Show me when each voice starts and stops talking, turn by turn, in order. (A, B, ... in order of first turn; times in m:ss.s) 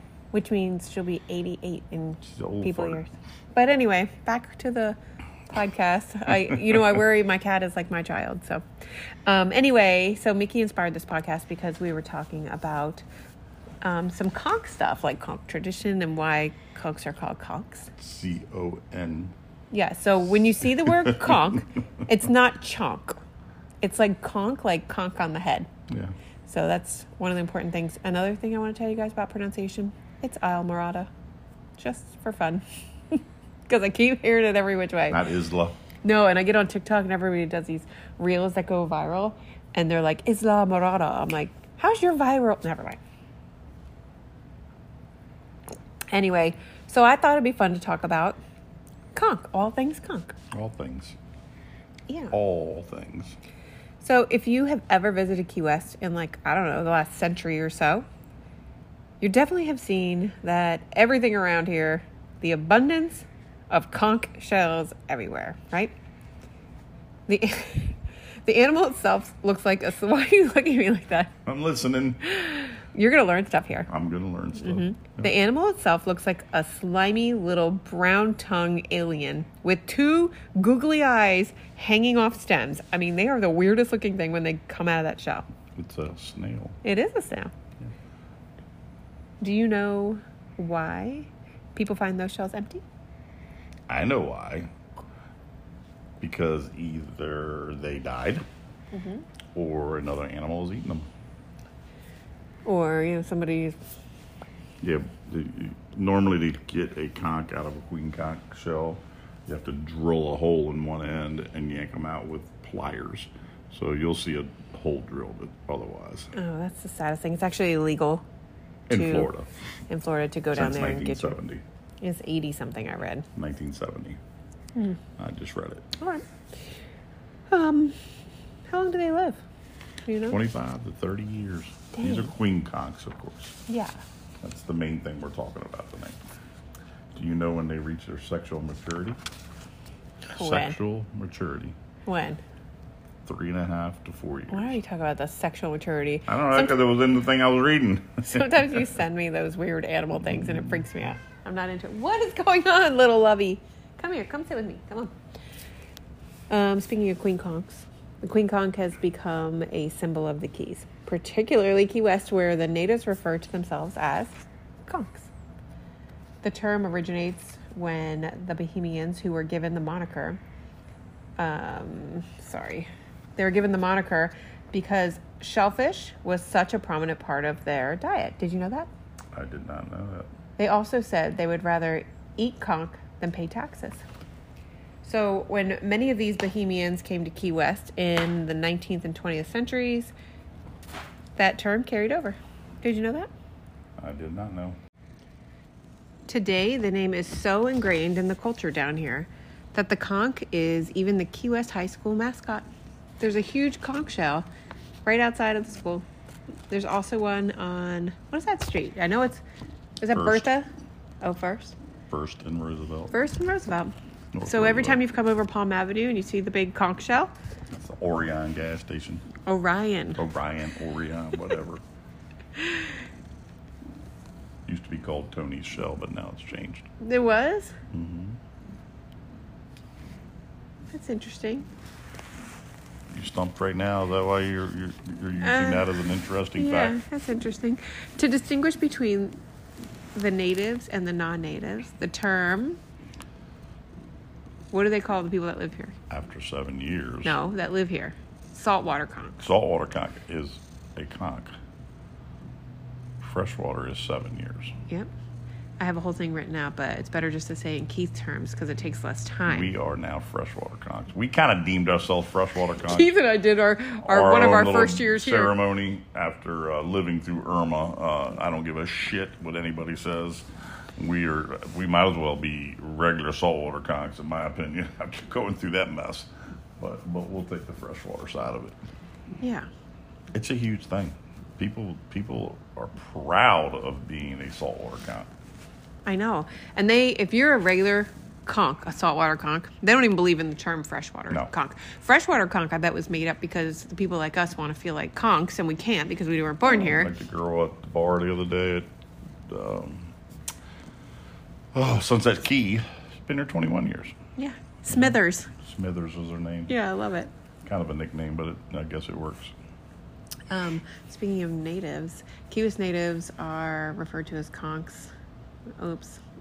0:00.3-0:05.0 A
0:02.2-0:03.0 B
0:05.5-0:08.6 A
0:09.3-0:13.0 A
0:13.8-0:17.9 A
0:18.0-0:19.4 B
0:19.7-0:23.2 A
0:20.8-0:21.6 B
0:23.8-0:25.7 A
0:25.9-0:26.1 B
0:26.5-0:31.1 A
0:31.8-0:35.2 A
0:35.1-0:35.8 B
0:36.0-0:43.0 A
0:46.1-0:48.4 A
0:49.2-0:50.4 A
0:50.5-0:51.2 B
0:52.3-0:53.4 B
0:54.0-0:58.1 A
0:59.2-1:05.9 A
1:07.3-1:11.3 A
1:11.4-1:12.3 B
1:12.2-1:13.9 A
1:13.9-1:15.3 B
1:14.6-1:25.5 A
1:25.8-1:26.8 B
1:26.8-1:27.5 A
1:29.4-1:32.8 A
1:33.9-1:34.7 B
1:36.2-1:38.4 B
1:38.9-1:39.2 A
1:39.5-1:41.1 B
1:42.6-1:43.8 A
1:44.8-1:56.3 B
1:56.3-1:58.2 A
1:58.9-1:59.5 B
1:58.9-1:59.3 A
1:59.9-2:01.4 A
2:00.5-2:01.6 B
2:02.0-2:03.3 A
2:03.4-2:04.2 B
2:05.2-2:05.9 B
2:06.0-2:06.2 A
2:07.5-2:08.0 A
2:08.7-2:09.4 A
2:10.1-2:10.4 A
2:10.3-2:13.6 B
2:12.0-2:12.3 A
2:13.7-2:14.0 A
2:14.4-2:16.2 B
2:17.2-2:19.2 B
2:20.3-2:20.8 A
2:20.4-2:21.8 B
2:22.1-2:22.4 A
2:23.2-2:24.8 B
2:24.5-2:26.8 A
2:26.3-2:28.8 B
2:28.3-2:35.1 A
2:30.3-2:30.8 B
2:36.5-2:45.3 A
2:46.4-2:50.4 A
2:51.4-2:58.9 A
2:59.3-3:00.3 B
3:00.6-3:04.0 A
3:05.0-3:10.1 A
3:11.4-3:13.3 A
3:14.0-3:14.8 B
3:16.3-3:22.7 A
3:23.2-3:24.5 A
3:25.0-3:26.0 A
3:26.7-3:29.4 A
3:30.0-3:30.7 A
3:30.1-3:30.5 B
3:31.2-3:31.8 A
3:32.1-3:33.1 B
3:33.1-3:33.9 A
3:34.3-3:35.0 B
3:34.4-3:37.3 A
3:37.7-3:39.3 B
3:39.5-3:40.2 A
3:40.2-3:41.8 B
3:44.7-3:46.9 B
3:47.0-3:47.8 A
3:47.9-3:48.4 B
3:50.9-3:51.7 A
3:53.1-3:57.0 B
3:55.4-3:55.9 A
3:56.6-3:59.4 A
4:00.2-4:02.8 A
4:04.7-4:06.0 A
4:06.1-4:07.4 B
4:07.2-4:09.4 A
4:09.4-4:11.5 B
4:13.2-4:14.8 B
4:15.8-4:19.7 A
4:19.5-4:23.1 B
4:22.8-4:25.5 A
4:24.0-4:38.8 B
4:39.4-4:39.7 A
4:40.3-4:45.3 B
4:46.1-4:57.1 A
4:56.6-4:58.9 B
4:59.5-5:00.1 B
5:01.7-5:04.2 B
5:04.4-5:05.5 A
5:04.9-5:06.8 B
5:06.7-5:07.3 A
5:07.6-5:09.5 B
5:10.5-5:15.1 A
5:15.8-5:16.2 A